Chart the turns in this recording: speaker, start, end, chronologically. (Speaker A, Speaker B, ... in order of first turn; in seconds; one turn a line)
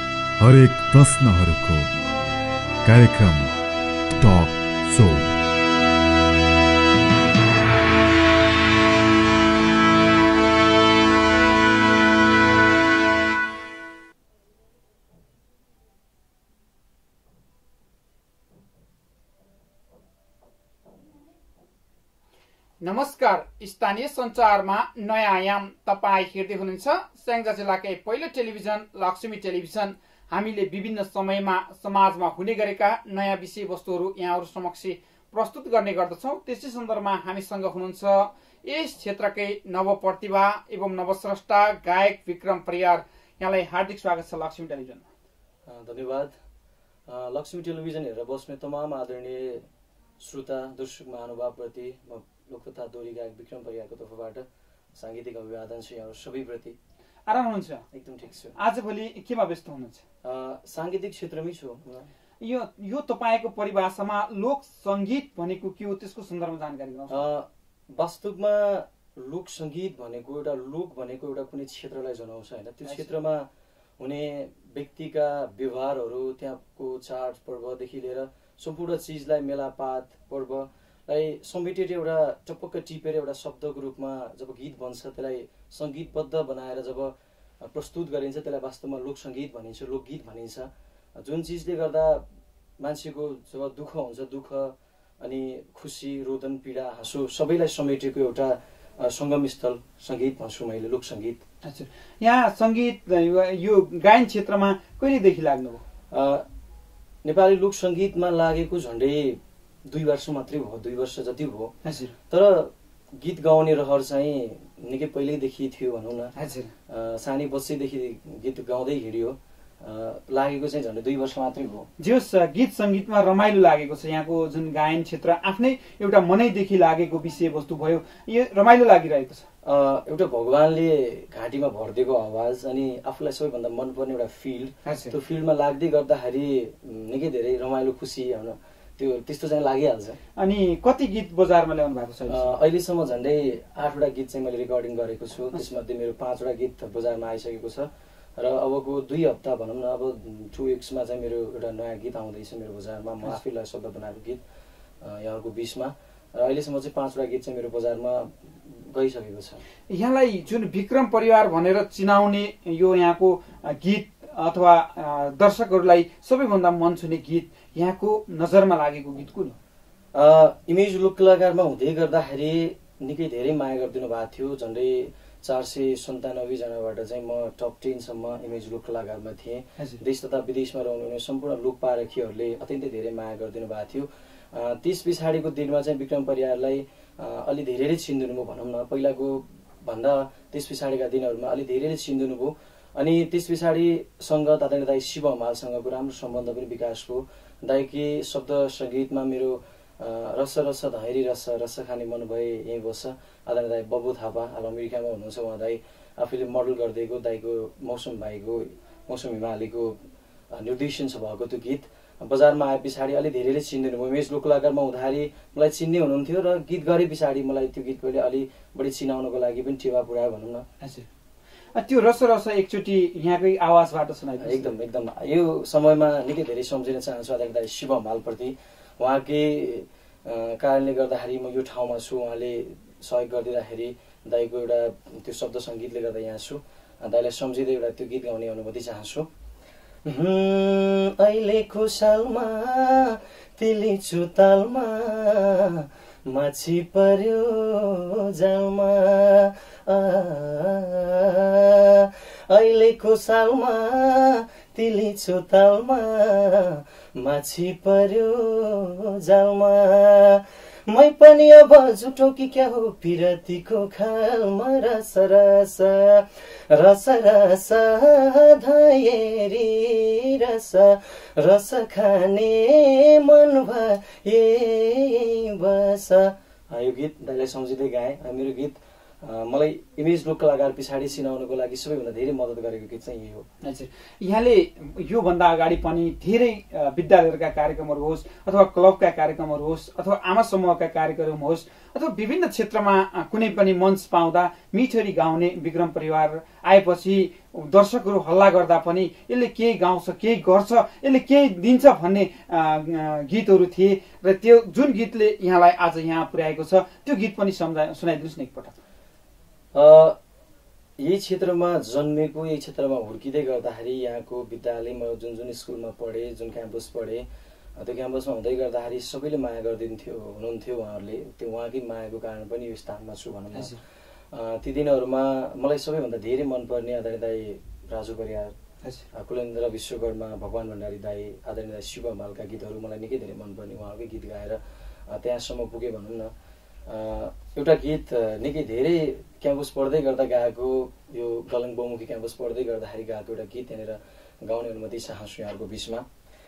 Speaker A: 0.4-1.9
Speaker A: 2.8-3.5
Speaker A: 4.2-5.3
Speaker B: 22.8-45.1
Speaker C: 45.6-46.3
Speaker C: 47.1-49.7
Speaker C: 50.2-56.8
Speaker B: 57.3-57.8
Speaker C: 57.9-58.5
Speaker B: 58.5-60.0
Speaker C: 60.2-62.1
Speaker B: 62.4-67.2
Speaker C: 67.1-92.2
Speaker B: 72.8-73.1
Speaker C: 92.8-101.4
Speaker B: 101.6-105.8
Speaker C: 106.1-106.5
Speaker C: 107.2-111.7
Speaker B: 111.8-112.1
Speaker C: 112.3-116.3
Speaker B: 116.3-116.7
Speaker C: 116.9-121.9
Speaker B: 122.0-129.5
Speaker C: 129.6-140.2
Speaker B: 134.8-135.2
Speaker B: 140.4-142.6
Speaker C: 142.3-154.4
Speaker C: 155.0-159.6
Speaker B: 159.9-169.6
Speaker C: 170.1-209.9
Speaker C: 210.5-220.7
Speaker B: 220.8-221.1
Speaker B: 221.7-224.7
Speaker C: 224.4-239.3
Speaker C: 240.1-283.5
Speaker B: 283.6-308.8
Speaker C: 309.7-310.2
Speaker C: 311.0-317.2
Speaker C: 317.8-323.8
Speaker B: 323.5-323.8
Speaker C: 324.3-328.5
Speaker C: 329.1-336.3
Speaker C: 336.9-346.0